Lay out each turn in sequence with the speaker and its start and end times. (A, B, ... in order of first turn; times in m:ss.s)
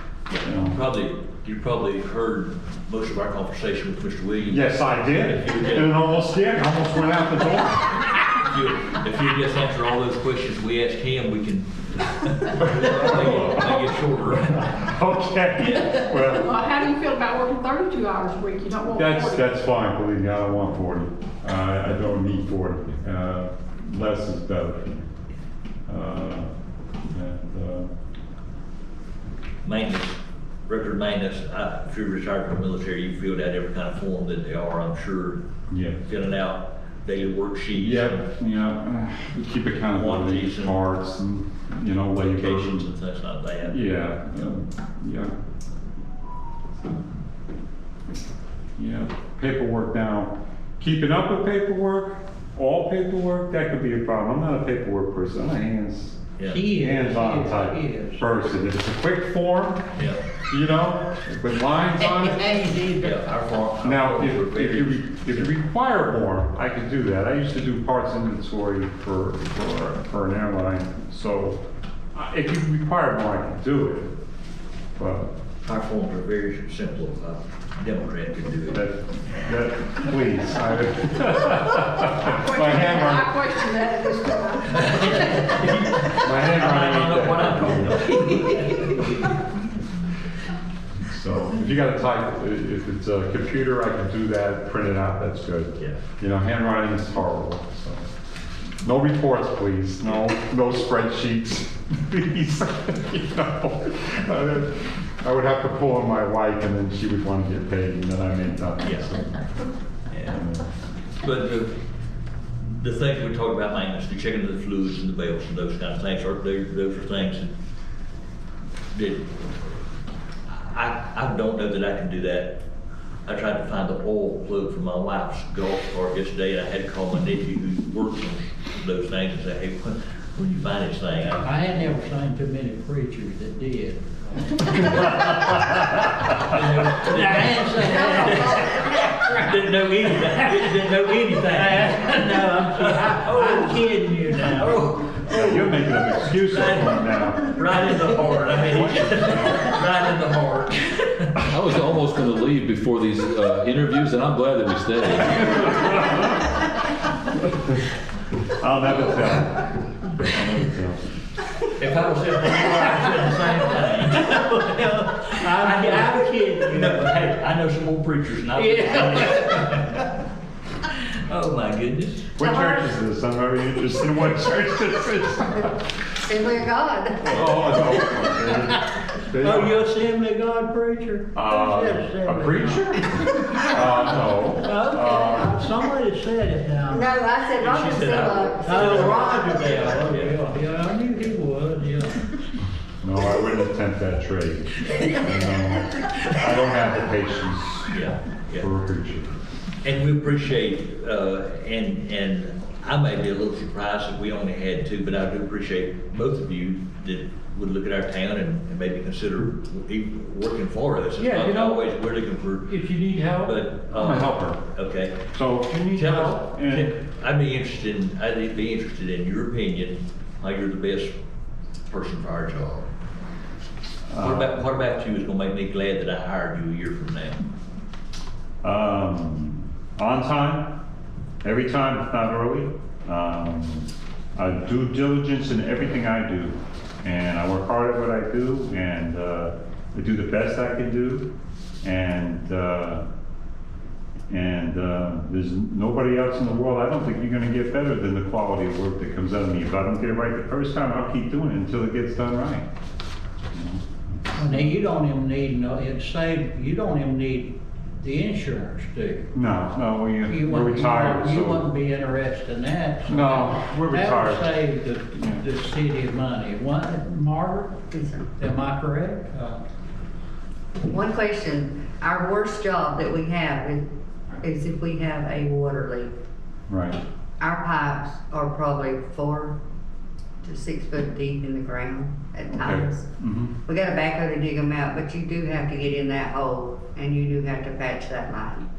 0:00.3-0:06.0 A
0:00.4-0:00.8 B
0:04.5-0:08.2 B
0:08.5-0:14.7 A
0:12.5-0:16.6 B
0:15.6-0:16.0 A
0:16.2-0:19.5 C
0:19.0-0:25.1 B
0:25.9-0:26.5 B
0:27.1-0:27.9 B
0:29.6-0:35.4 A
0:35.7-0:36.0 B
0:36.0-0:38.3 A
0:37.7-0:42.9 B
0:39.9-0:40.8 A
0:42.2-0:43.9 A
0:43.6-0:45.3 B
0:48.8-0:59.9 B
0:56.5-0:58.3 D
1:00.5-1:02.6 B
1:02.0-1:03.2 D
1:03.0-1:05.6 A
1:03.8-1:11.6 B
1:12.1-1:14.1 B
1:15.0-1:15.3 B
1:15.6-1:18.8 A
1:18.7-1:23.3 B
1:22.3-1:26.1 C
1:24.7-1:29.4 A
1:26.1-1:28.2 B
1:31.0-1:38.0 B
1:38.8-1:49.3 B
1:50.1-1:50.4 A
1:50.3-1:50.6 B
1:51.2-1:51.8 A
1:52.6-1:57.5 A
1:58.9-1:59.4 A
2:00.5-2:02.6 A
2:03.3-2:11.6 A
2:11.4-2:19.5 D
2:16.4-2:31.4 A
2:17.8-2:19.2 E
2:20.1-2:25.0 D
2:25.3-2:27.6 B
2:28.8-2:29.7 B
2:31.5-2:36.3 F
2:38.5-2:41.0 B
2:41.8-2:50.1 A
2:44.3-2:44.8 D
2:45.4-2:47.2 D
2:48.5-2:49.7 D
2:50.9-2:52.3 A
2:52.4-2:55.8 B
2:52.4-2:52.9 E
2:56.3-2:57.9 E
2:57.2-2:59.8 B
2:58.6-3:04.0 D
3:01.3-3:05.6 B
3:04.6-3:07.1 D
3:06.9-3:09.8 E
3:07.6-3:10.4 A
3:08.6-3:12.2 D
3:13.0-3:17.9 B
3:17.9-3:18.7 A
3:18.6-3:19.4 B
3:19.8-3:32.8 A
3:31.2-3:31.9 D
3:32.6-3:33.6 D
3:33.4-3:35.2 A
3:33.9-3:34.7 B
3:35.3-3:37.0 B
3:35.9-3:41.2 A
3:41.9-3:42.9 A
3:44.1-3:44.6 B
3:44.2-3:47.4 A
3:48.6-3:50.8 B
3:51.4-4:01.3 B
4:01.8-4:03.1 B
4:04.3-4:12.7 B
4:13.5-4:14.6 B
4:14.4-4:19.3 D
4:19.3-4:21.7 B
4:20.3-4:27.8 D
4:23.1-4:24.6 B
4:25.1-4:25.4 B
4:27.9-4:28.3 E
4:28.4-4:29.6 D
4:30.9-4:33.8 E
4:34.4-4:36.1 E
4:36.7-4:37.0 B
4:37.4-4:39.6 E
4:40.4-4:43.1 E
4:42.5-4:43.6 B
4:43.6-4:48.7 E